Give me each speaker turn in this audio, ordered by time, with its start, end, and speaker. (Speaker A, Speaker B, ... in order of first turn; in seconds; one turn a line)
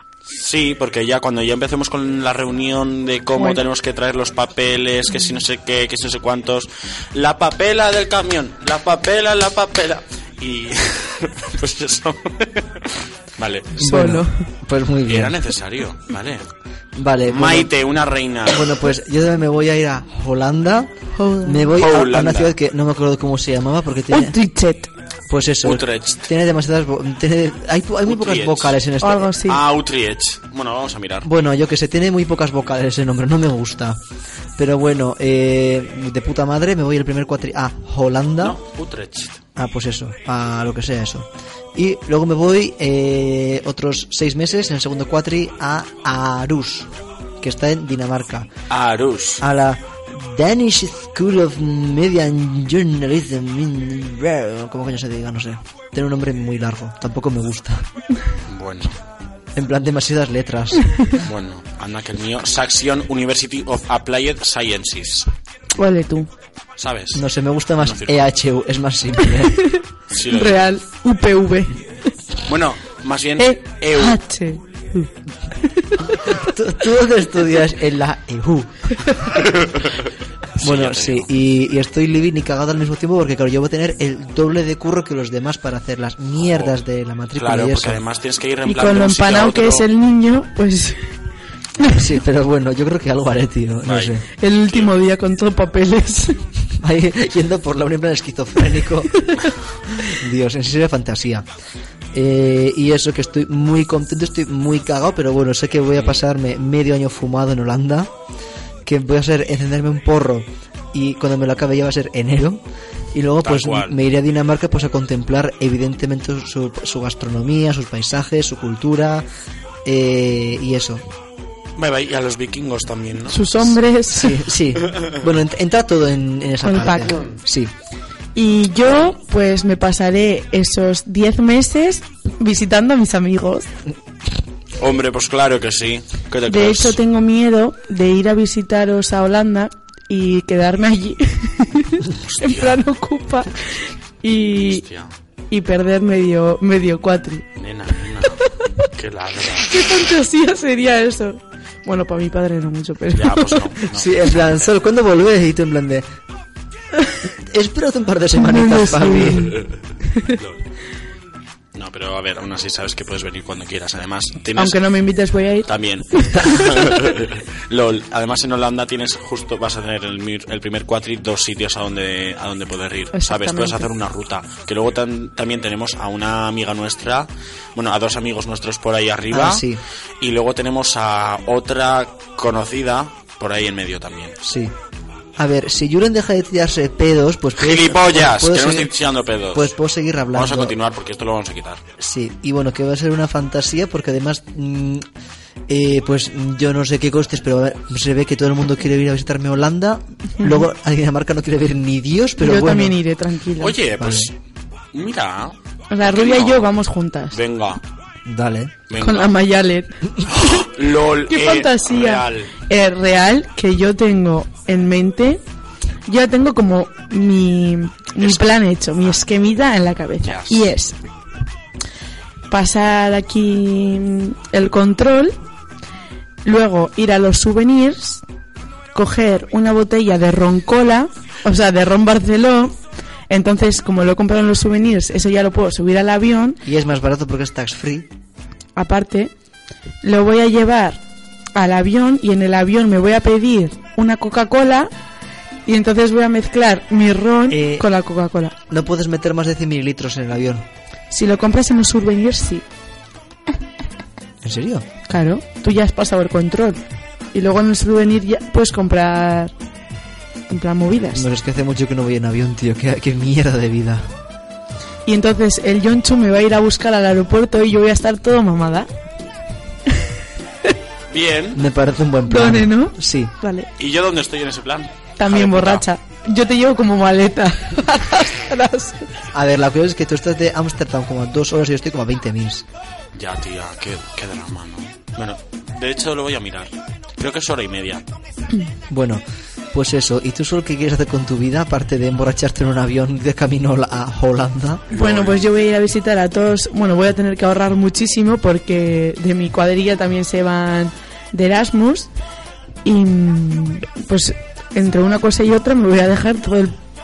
Speaker A: 0.3-13.8
Speaker B: 3.4-3.6
Speaker B: 13.8-14.3
Speaker C: 13.8-15.4
Speaker A: 15.1-16.4
Speaker C: 17.0-17.7
Speaker A: 17.3-18.8
Speaker C: 18.5-24.4
Speaker B: 21.1-21.8
Speaker A: 21.8-22.6
Speaker B: 24.1-24.9
Speaker C: 25.3-29.4
Speaker A: 25.6-26.3
Speaker A: 28.1-28.8
Speaker B: 29.0-29.6
Speaker A: 29.5-31.3
Speaker C: 31.2-34.0
Speaker C: 34.6-38.6
Speaker A: 38.4-39.4
Speaker C: 39.6-48.5
Speaker A: 48.7-49.5
Speaker C: 49.4-57.9
Speaker A: 58.5-59.0
Speaker C: 59.5-61.1
Speaker A: 61.2-65.3
Speaker B: 65.8-66.3
Speaker A: 66.8-67.2
Speaker C: 67.1-69.7
Speaker A: 67.8-68.3
Speaker B: 69.6-71.8
Speaker A: 70.1-70.8
Speaker A: 72.5-74.2
Speaker B: 73.4-76.4
Speaker C: 76.3-79.1
Speaker A: 79.5-80.0
Speaker A: 80.6-81.3
Speaker C: 80.6-88.0
Speaker A: 86.4-86.7
Speaker A: 87.4-89.9
Speaker B: 88.7-91.1
Speaker C: 91.8-94.2
Speaker A: 93.8-95.0
Speaker B: 94.4-96.4
Speaker C: 96.8-99.4
Speaker C: 100.0-101.5
Speaker C: 102.1-108.1
Speaker C: 108.8-119.3
Speaker A: 113.4-114.0
Speaker C: 119.8-121.0
Speaker A: 121.8-123.8
Speaker B: 123.3-124.4
Speaker C: 124.1-127.7
Speaker A: 124.9-125.1
Speaker B: 126.6-127.2
Speaker B: 128.3-133.7
Speaker A: 128.8-129.2
Speaker A: 134.8-137.0
Speaker B: 136.5-144.8
Speaker A: 142.1-142.8
Speaker A: 144.7-145.1
Speaker B: 145.5-147.5
Speaker A: 147.6-149.8
Speaker B: 148.4-148.7
Speaker B: 149.6-153.7
Speaker A: 153.1-154.7
Speaker C: 153.9-156.1
Speaker C: 157.4-159.6
Speaker B: 158.5-159.6
Speaker A: 160.3-160.6
Speaker A: 161.8-164.8
Speaker B: 164.6-166.8
Speaker A: 165.7-179.7
Speaker B: 173.1-173.9
Speaker C: 179.3-179.8
Speaker A: 180.2-184.4
Speaker C: 184.4-184.7
Speaker C: 185.4-188.9
Speaker A: 187.6-189.7
Speaker C: 189.5-190.8
Speaker A: 190.3-191.8
Speaker C: 192.0-195.1
Speaker C: 195.7-203.0
Speaker B: 200.4-200.7
Speaker B: 202.4-203.8
Speaker A: 203.6-204.3
Speaker C: 204.0-204.3
Speaker A: 204.9-207.8
Speaker B: 205.9-207.4
Speaker C: 208.2-208.8
Speaker A: 208.9-209.3
Speaker B: 209.0-210.7
Speaker A: 210.3-212.5
Speaker B: 211.3-215.4
Speaker B: 216.1-221.0
Speaker A: 218.2-219.2
Speaker A: 220.2-220.7
Speaker B: 222.5-225.4
Speaker B: 226.4-228.2
Speaker B: 228.9-232.8
Speaker B: 233.3-236.6
Speaker C: 236.6-238.1
Speaker B: 238.8-239.3
Speaker B: 240.0-241.0
Speaker B: 241.6-244.9
Speaker B: 245.7-248.6
Speaker C: 247.5-247.9
Speaker C: 248.7-250.7
Speaker B: 251.1-252.7
Speaker C: 254.4-254.9
Speaker B: 255.1-256.8
Speaker B: 257.3-259.5
Speaker B: 260.5-261.3
Speaker C: 261.1-264.1
Speaker B: 265.1-268.9
Speaker A: 271.1-271.6
Speaker C: 271.5-273.3
Speaker B: 272.3-273.7
Speaker A: 273.8-275.9
Speaker B: 275.2-279.1
Speaker C: 279.3-282.6
Speaker A: 283.1-288.0
Speaker C: 288.9-294.9
Speaker A: 294.9-295.5
Speaker B: 294.9-302.1
Speaker B: 302.9-306.8